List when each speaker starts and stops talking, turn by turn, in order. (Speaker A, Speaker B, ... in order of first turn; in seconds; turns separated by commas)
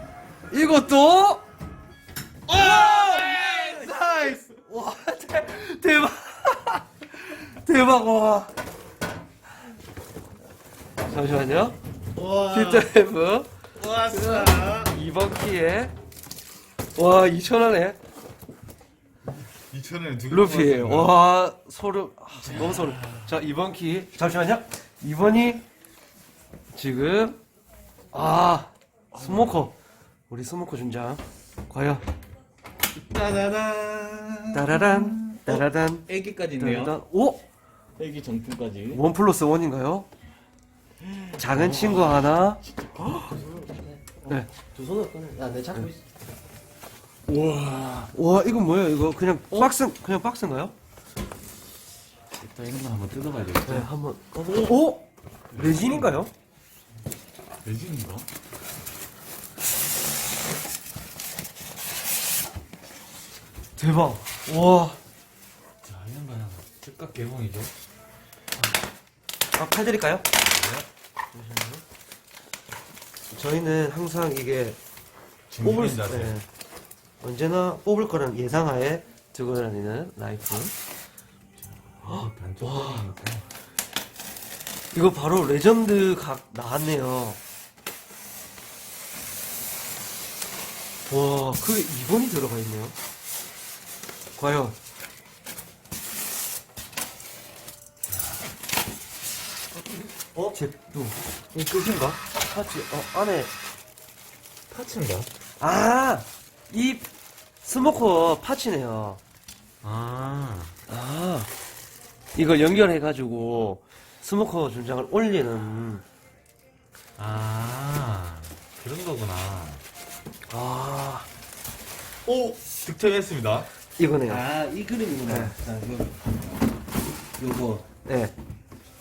Speaker A: 0.5-1.4, Speaker B: 2.5-4.0, Speaker A: 2.5-8.5, Speaker A: 11.0-11.8, Speaker B: 12.2-12.9, Speaker A: 12.3-13.5, Speaker B: 13.8-14.9, Speaker A: 14.1-15.9, Speaker A: 16.9-18.0, Speaker B: 19.7-21.2, Speaker A: 20.3-25.6, Speaker B: 22.4-23.4, Speaker A: 26.7-27.4, Speaker A: 28.1-29.7, Speaker B: 29.1-29.7, Speaker A: 30.3-32.0, Speaker B: 32.9-37.0, Speaker A: 34.5-37.4, Speaker B: 38.0-39.0, Speaker A: 38.9-40.1, Speaker B: 41.0-43.4, Speaker A: 41.4-43.3, Speaker C: 43.2-44.0, Speaker A: 44.3-44.7, Speaker C: 44.7-46.0, Speaker B: 47.3-48.1, Speaker A: 48.1-50.7, Speaker B: 52.4-53.9, Speaker A: 53.6-56.3, Speaker B: 55.5-56.2, Speaker B: 57.6-58.3, Speaker A: 63.8-65.0, Speaker B: 65.8-67.7, Speaker A: 69.5-70.3, Speaker B: 70.3-70.8, Speaker A: 71.3-71.8, Speaker A: 73.3-74.8, Speaker B: 75.5-76.3, Speaker A: 75.6-76.5, Speaker A: 77.2-80.7, Speaker B: 81.6-83.5, Speaker A: 82.0-83.1, Speaker A: 84.9-87.4, Speaker A: 91.0-93.0, Speaker A: 94.4-94.8, Speaker A: 100.3-100.9, Speaker B: 101.5-102.2, Speaker A: 102.2-103.5, Speaker B: 104.7-105.3, Speaker A: 105.6-107.1, Speaker A: 107.6-109.2, Speaker B: 109.8-110.7, Speaker A: 110.9-111.5, Speaker A: 112.3-116.0, Speaker B: 117.2-119.8, Speaker A: 120.5-121.3, Speaker B: 122.2-123.7, Speaker A: 124.0-124.5, Speaker C: 124.3-126.2, Speaker A: 125.2-125.5, Speaker C: 127.4-127.8, Speaker A: 128.0-128.3